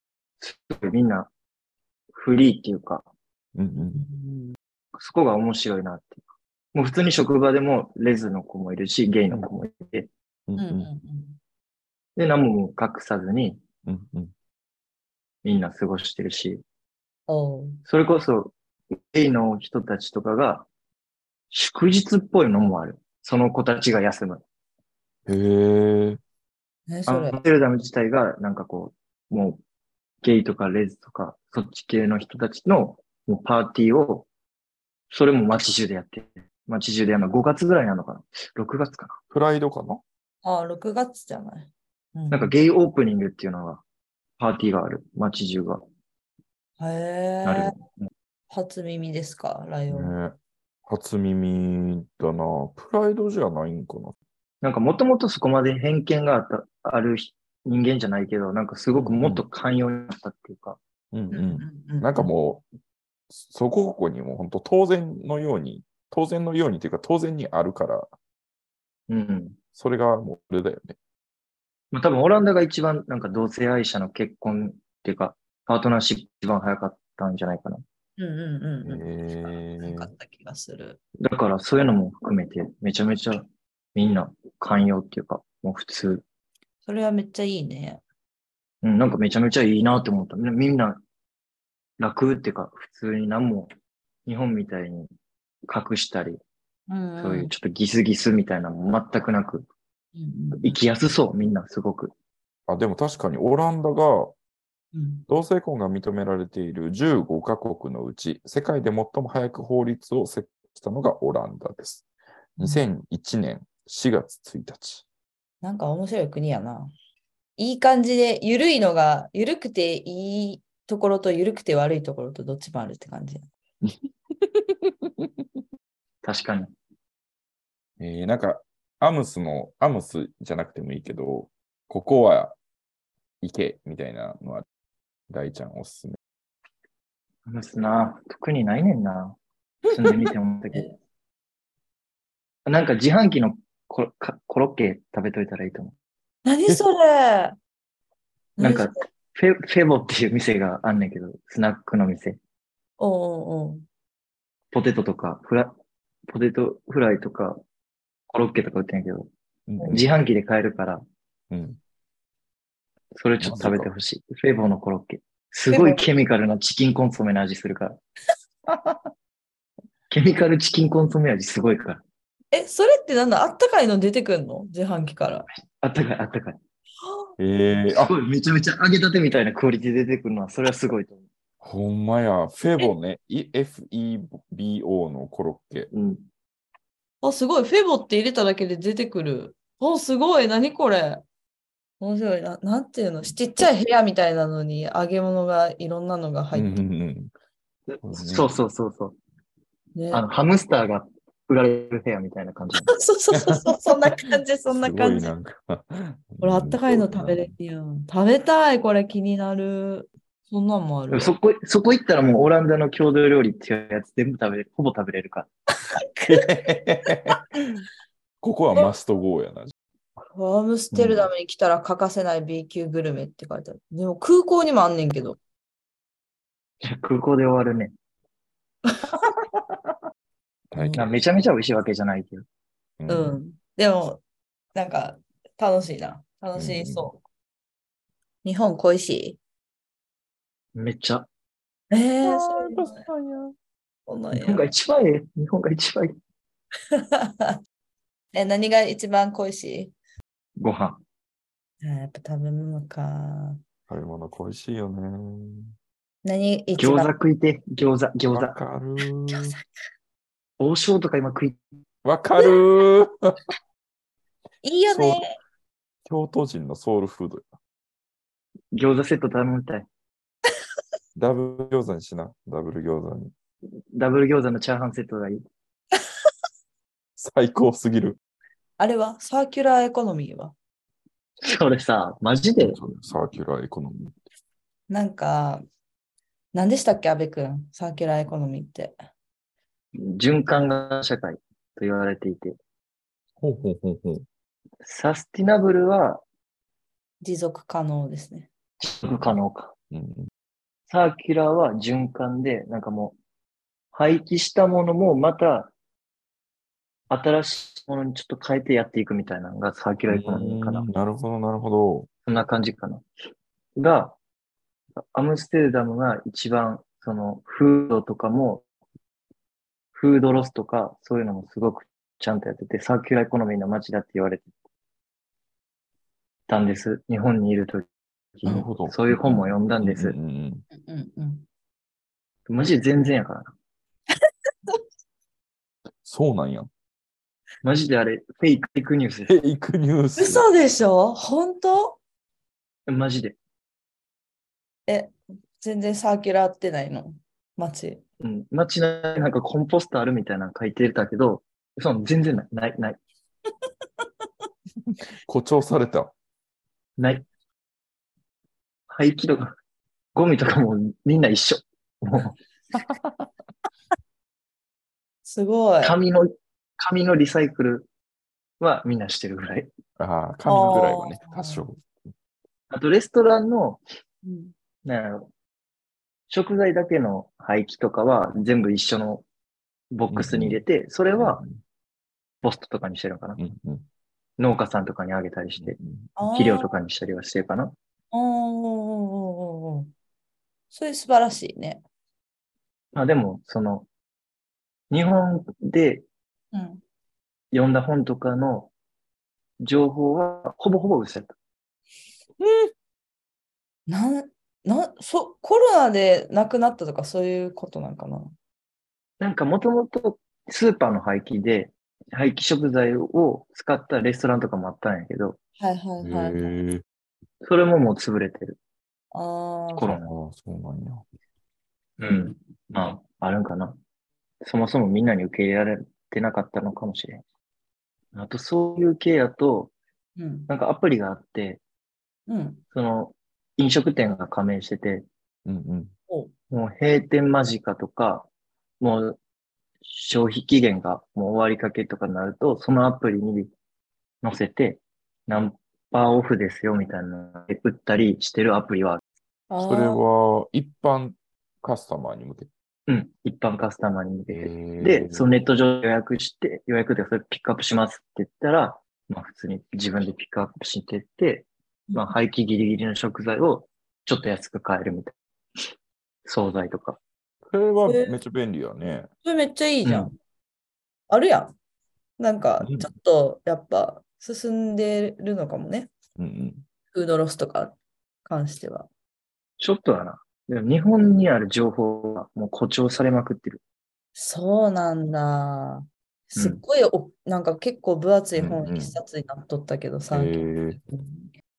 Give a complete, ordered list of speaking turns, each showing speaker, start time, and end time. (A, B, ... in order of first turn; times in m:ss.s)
0:00.4-0:01.3 A
0:02.1-0:03.1 A
0:03.6-0:04.0 B
0:03.9-0:04.6 C
0:05.0-0:06.2 A
0:06.7-0:10.1 A
0:10.5-0:10.9 B
0:10.6-0:11.4 C
0:12.2-0:13.6 A
0:13.8-0:14.3 B
0:15.4-0:16.6 A
0:17.3-0:17.8 C
0:17.9-0:20.7 A
0:21.5-0:24.4 A
0:25.3-0:26.2 B
0:26.9-0:27.4 C
0:27.1-0:29.6 A
0:30.2-0:34.3 A
0:35.1-0:39.2 A
0:39.3-0:40.0 B
0:40.4-0:42.5 C
0:42.3-0:43.8 A
0:44.4-0:45.8 A
0:46.8-0:47.7 C
0:47.4-0:48.1 A
0:48.5-0:50.1 C
0:49.9-0:54.2 B
0:54.6-1:00.8 A
0:58.9-0:59.4 B
1:01.1-1:02.6 B
1:01.3-1:02.3 C
1:03.3-1:08.1 B
1:09.1-1:09.6 A
1:09.8-1:11.0 B
1:11.9-1:17.8 A
1:18.2-1:21.0 C
1:18.8-1:20.1 B
1:21.2-1:26.2 A
1:26.8-1:28.0 C
1:28.8-1:31.0 A
1:32.0-1:33.7 A
1:34.3-1:35.1 A
1:35.7-1:36.4 A
1:36.9-1:37.5 C
1:37.2-1:39.7 A
1:40.2-1:40.8 C
1:40.5-1:42.1 A
1:42.7-1:44.3 B
1:45.0-1:45.2 C
1:45.3-1:52.0 B
1:52.6-1:55.0 B
1:55.6-1:56.9 C
1:57.6-2:03.4 C
2:06.2-2:06.7 A
2:08.0-2:12.6 B
2:13.4-2:14.6 B
2:15.3-2:16.2 B
2:17.5-2:19.4 A
2:19.9-2:20.9 A
2:20.0-2:20.3 B
2:22.7-2:25.9 A
2:26.4-2:27.6 C
2:28.6-2:28.9 C
2:28.6-2:32.4 A
2:33.0-2:33.8 C
2:34.7-2:35.7 A
2:36.3-2:37.6 A
2:38.3-2:39.3 A
2:39.7-2:40.0 B
2:39.9-2:41.0 A
2:41.5-2:41.8 B
2:43.2-2:48.0 A
2:43.4-2:43.9 B
2:45.7-2:46.0 C
2:48.7-2:49.0 C
2:50.1-2:52.0 A
2:52.5-2:55.5 C
2:55.8-2:56.6 A
2:57.4-2:58.1 B
2:57.9-3:01.2 A
3:01.6-3:05.9 B
3:05.9-3:06.2 A
3:07.2-3:11.2 C
3:12.0-3:16.8 C
3:16.5-3:17.3 B
3:17.9-3:19.2 A
3:18.0-3:18.6 B
3:20.0-3:20.2 C
3:20.1-3:23.0 A
3:22.9-3:25.3 C
3:23.3-3:23.8 B
3:24.7-3:27.5 B
3:26.4-3:31.3 C
3:31.1-3:35.5 A
3:36.0-3:37.4 C
3:36.3-3:37.8 B
3:38.4-3:39.7 B
3:40.3-3:45.4 C
3:40.9-3:41.3 A
3:46.8-3:47.9 A
3:50.7-3:51.1 B
3:50.7-3:51.1 C
3:51.0-3:52.4 A
3:53.0-3:53.4 B
3:53.1-3:54.2 C
3:54.8-3:57.2 C
3:56.6-3:57.1 B
3:58.4-3:59.4 C
4:00.8-4:01.3 A
4:01.9-4:03.1 C
4:02.2-4:03.6 B
4:04.1-4:04.7 C
4:04.3-4:06.1 A
4:07.0-4:07.6 C
4:08.3-4:09.9 C
4:10.6-4:11.0 A
4:11.8-4:13.6 C
4:13.9-4:15.7 B
4:16.2-4:17.1 C
4:16.8-4:18.6 A
4:18.3-4:19.6 B
4:19.3-4:19.6 C
4:20.6-4:21.6 A
4:22.0-4:23.4 B
4:24.6-4:25.3 C
4:24.9-4:25.2 B
4:26.1-4:27.4 B
4:28.7-4:29.9 A
4:31.2-4:33.3 B
4:33.9-4:35.4 A
4:37.2-4:38.2 B
4:38.8-4:40.5 C
4:41.4-4:42.8 A
4:42.6-4:44.2 B
4:44.9-4:45.6 C
4:46.5-4:49.0 C
4:50.0-4:52.6 A
4:53.4-4:54.3 B
4:54.8-4:56.2 A
4:57.2-4:58.5 C
4:58.8-4:59.7 A
4:59.9-5:00.3 B
5:00.9-5:03.2 A
5:03.9-5:05.7 A
5:07.1-5:10.9 A
5:10.1-5:12.1 B
5:12.3-5:13.0 A
5:13.8-5:14.2 A
5:15.0-5:18.6 A
5:20.0-5:24.5 A
5:26.5-5:27.9 A
5:28.4-5:30.2 A
5:28.4-5:30.6 B
5:30.7-5:31.5 C
5:32.5-5:33.5 A
5:36.0-5:36.7 B
5:37.6-5:39.4 A
5:39.3-5:40.4 B
5:40.2-5:42.0 C
5:42.9-5:43.4 A
5:44.9-5:48.0 C
5:48.2-5:53.0 A
5:55.3-5:56.1 B
5:57.0-5:57.2 A
5:58.9-5:59.5 A
6:00.2-6:02.4 A
6:05.2-6:06.0 C
6:05.8-6:07.9 A
6:08.6-6:09.7 A
6:10.0-6:11.9 B
6:10.5-6:11.7 C
6:12.7-6:13.8 A
6:14.2-6:14.5 C
6:14.8-6:15.3 A
6:16.3-6:19.2 A
6:19.9-6:21.4 A
6:20.1-6:20.6 B
6:21.2-6:21.6 B
6:22.4-6:23.4 A
6:23.4-6:23.9 B
6:24.4-6:25.8 A
6:25.6-6:26.1 B
6:26.2-6:26.7 C
6:26.3-6:27.8 A
6:28.1-6:29.9 C
6:30.7-6:31.8 C
6:32.9-6:33.9 A
6:34.9-6:36.0 A
6:36.5-6:36.8 C
6:37.5-6:38.7 A
6:39.6-6:41.4 A
6:43.9-6:48.3 C
6:49.2-6:55.4 A
6:55.6-6:56.6 C
6:56.0-6:56.8 B
6:57.4-6:58.6 A
6:59.1-6:59.9 C
6:59.8-7:00.1 A
7:00.0-7:01.0 B
7:02.0-7:03.8 A
7:04.4-7:07.2 A
7:08.1-7:09.7 A
7:10.2-7:10.5 C
7:10.5-7:11.6 A
7:12.3-7:12.6 C
7:12.7-7:15.1 A
7:15.4-7:15.9 B
7:16.5-7:18.3 A
7:18.8-7:19.2 A
7:19.8-7:23.5 A
7:24.2-7:29.0 A
7:29.5-7:30.0 C
7:29.6-7:32.5 B
7:32.9-7:45.1 A
7:34.3-7:35.3 B
7:46.3-7:47.0 A
7:47.5-7:49.1 B
7:47.9-7:48.2 C
7:49.2-7:50.2 C
7:49.8-7:50.1 B
7:51.1-7:51.5 C
7:52.2-7:55.9 C
7:52.6-7:52.9 B
7:56.2-7:56.6 B
7:56.9-7:58.9 C
7:59.6-8:03.6 A
8:04.2-8:11.3 C
8:06.4-8:06.6 A
8:08.4-8:09.0 B
8:10.1-8:10.8 B